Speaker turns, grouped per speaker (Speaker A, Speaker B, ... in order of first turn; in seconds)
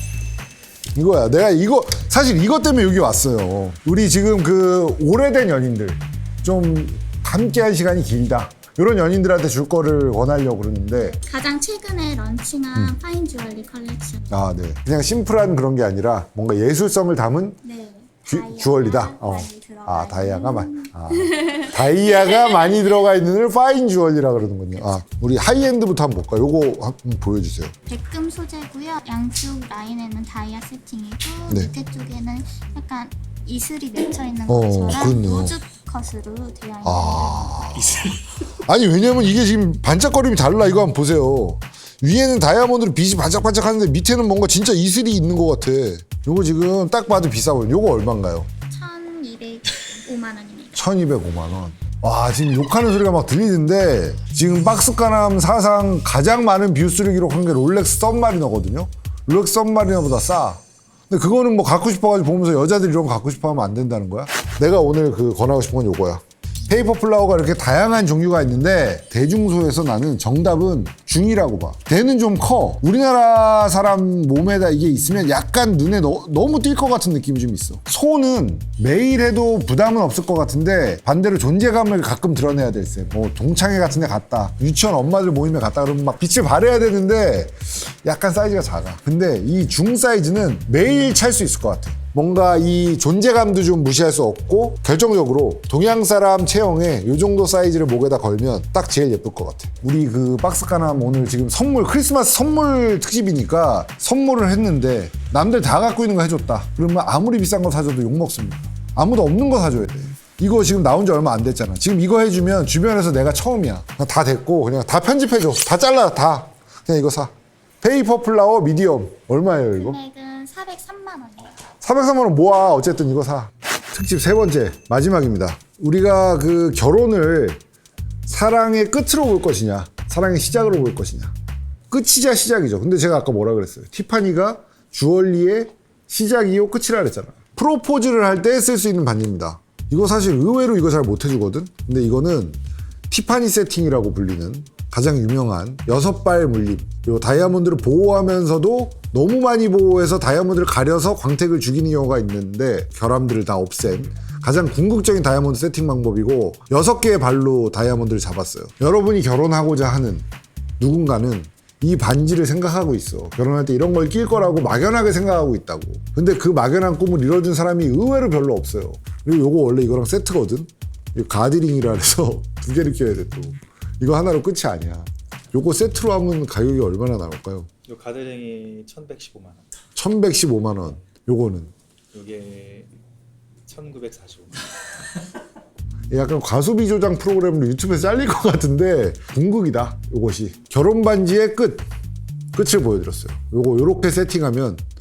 Speaker A: 0.9-11.2, 14.3-17.6, 18.3-27.7, 34.5-35.5, 36.8-48.5, 50.8-120.0, 121.8-127.6, 128.3-131.3, 131.9-160.3, 160.8-177.7, 179.9-181.7, 186.1-191.9, 192.5-194.8
Speaker B: 11.2-14.4, 17.6-22.5, 27.9-37.8, 48.7-50.9, 119.7-121.5
Speaker C: 37.9-38.2, 177.8-179.7, 182.1-182.9, 183.7-184.7